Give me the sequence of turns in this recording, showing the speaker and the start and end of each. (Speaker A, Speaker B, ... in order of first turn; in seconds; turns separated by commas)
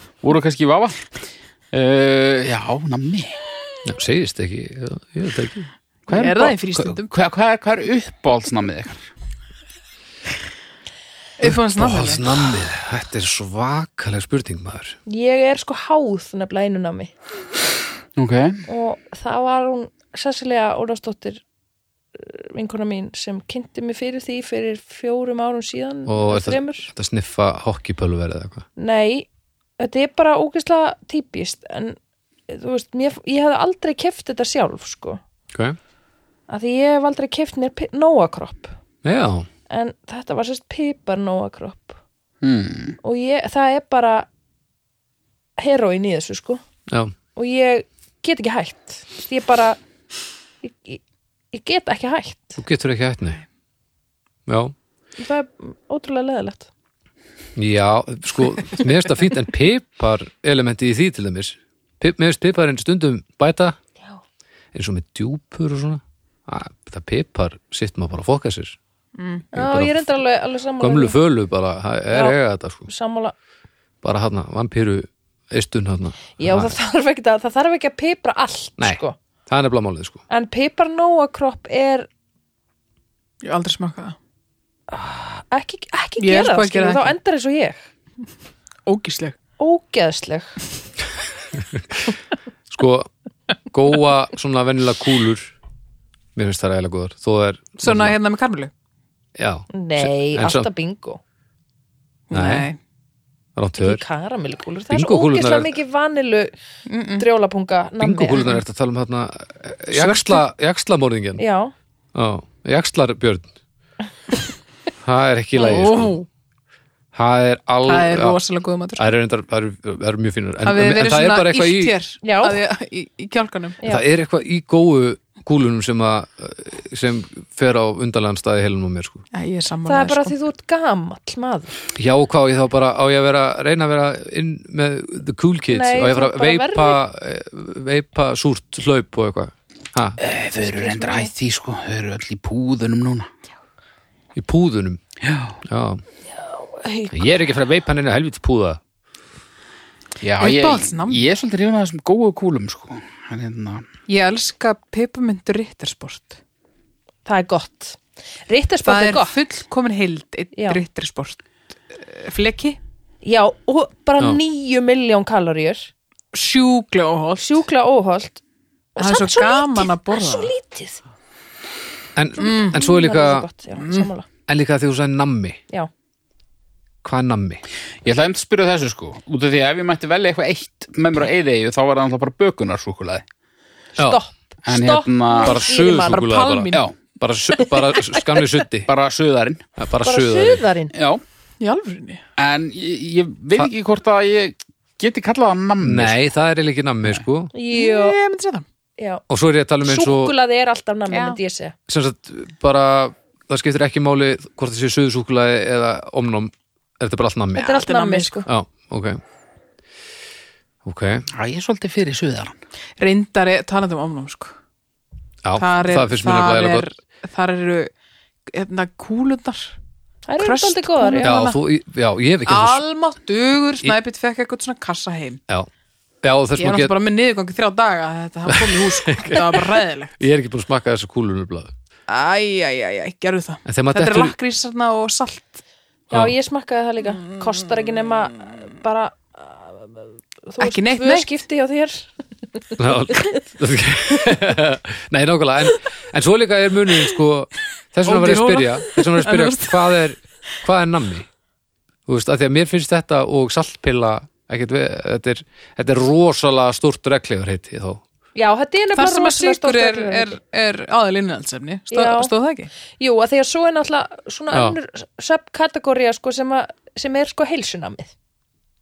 Speaker A: 0.2-1.0, Speaker A: 1.7-3.4, Speaker B: 3.9-5.7, Speaker A: 6.1-9.1, Speaker C: 6.1-7.1, Speaker C: 11.4-12.5, Speaker B: 11.4-15.0, Speaker D: 15.1-17.1, Speaker A: 18.2-18.6, Speaker D: 18.7-21.4, Speaker D: 22.1-26.9, Speaker B: 26.1-28.6, Speaker D: 28.8-29.3, Speaker D: 29.8-32.0, Speaker D: 32.5-35.2, Speaker D: 36.5-38.7, Speaker B: 39.0-39.5, Speaker D: 39.7-42.0, Speaker A: 42.4-43.0, Speaker D: 43.0-44.3, Speaker D: 45.6-46.6, Speaker B: 46.9-47.1, Speaker D: 47.4-49.8, Speaker D: 50.6-51.0, Speaker D: 51.5-52.6, Speaker B: 52.6-53.4, Speaker B: 54.5-54.7, Speaker D: 55.2-56.7, Speaker B: 57.6-63.8, Speaker B: 64.7-68.8, Speaker C: 69.2-69.5, Speaker B: 69.5-70.1, Speaker D: 69.5-71.2, Speaker B: 70.8-72.9, Speaker D: 72.1-73.3, Speaker B: 74.0-76.7, Speaker D: 76.4-79.2, Speaker B: 78.8-80.2, Speaker D: 80.3-82.1, Speaker C: 83.4-84.2, Speaker D: 84.9-87.8, Speaker C: 86.2-87.2, Speaker C: 88.9-89.3, Speaker D: 89.6-90.5, Speaker B: 92.7-93.1, Speaker B: 93.7-95.5, Speaker B: 96.4-98.2, Speaker C: 97.8-98.7, Speaker B: 99.4-100.7, Speaker D: 99.7-101.2, Speaker C: 102.3-102.8, Speaker B: 102.3-102.7, Speaker B: 103.6-104.0, Speaker D: 103.8-106.5, Speaker B: 104.9-105.7, Speaker C: 106.9-107.3, Speaker D: 107.2-108.5, Speaker B: 108.0-111.4, Speaker C: 109.9-110.4, Speaker D: 111.4-111.7, Speaker B: 112.2-113.5, Speaker B: 115.0-116.2, Speaker C: 115.6-116.3, Speaker B: 117.1-118.4, Speaker C: 117.8-119.1, Speaker B: 119.0-122.0, Speaker C: 120.6-123.8, Speaker D: 122.2-122.6, Speaker B: 123.9-129.2, Speaker C: 129.3-130.3, Speaker D: 129.9-131.8, Speaker B: 131.9-140.2, Speaker D: 135.7-137.0, Speaker A: 140.2-143.3, Speaker D: 140.7-141.3, Speaker B: 144.4-145.0, Speaker A: 145.2-145.6, Speaker B: 145.7-146.0, Speaker D: 146.4-147.2, Speaker B: 147.1-148.8, Speaker A: 150.2-153.8, Speaker C: 150.4-151.2, Speaker C: 154.1-156.4, Speaker D: 157.3-159.4, Speaker C: 158.8-162.8, Speaker D: 160.5-160.8, Speaker D: 163.2-165.9, Speaker C: 166.3-167.7, Speaker D: 167.4-168.4, Speaker D: 168.9-171.0, Speaker C: 169.0-170.5, Speaker B: 172.2-173.5, Speaker C: 172.4-172.8, Speaker D: 172.4-174.3, Speaker C: 173.8-174.1, Speaker B: 174.5-175.6, Speaker B: 177.0-177.6, Speaker A: 178.0-183.2, Speaker D: 184.0-186.2, Speaker A: 184.7-185.6, Speaker B: 185.4-188.9, Speaker C: 186.1-186.8, Speaker A: 188.9-189.7, Speaker B: 189.8-190.6, Speaker D: 190.0-190.9, Speaker A: 190.9-191.2, Speaker C: 191.6-192.2, Speaker A: 192.4-196.2, Speaker B: 195.8-197.5, Speaker D: 197.5-198.2, Speaker C: 197.7-198.7, Speaker D: 199.0-199.2, Speaker B: 199.3-200.3, Speaker D: 199.8-201.8, Speaker C: 201.1-201.4, Speaker B: 201.9-207.8, Speaker D: 207.6-208.5, Speaker C: 207.6-208.4, Speaker B: 208.5-209.2, Speaker B: 210.8-211.3, Speaker A: 211.3-212.6, Speaker C: 213.0-214.5, Speaker B: 215.4-216.9, Speaker C: 215.6-217.9, Speaker C: 218.5-219.8, Speaker D: 220.3-221.4, Speaker C: 220.4-221.6, Speaker B: 221.2-222.8, Speaker C: 222.5-225.4, Speaker B: 226.2-226.9, Speaker C: 226.6-230.2, Speaker B: 228.5-231.7, Speaker C: 232.1-235.6, Speaker B: 233.7-234.4, Speaker D: 236.1-243.3, Speaker C: 240.6-241.3, Speaker B: 242.8-251.3, Speaker C: 248.1-250.0, Speaker B: 252.1-258.0, Speaker D: 258.4-260.4, Speaker C: 258.9-262.7, Speaker D: 261.9-262.3, Speaker D: 263.0-268.1, Speaker B: 264.5-264.8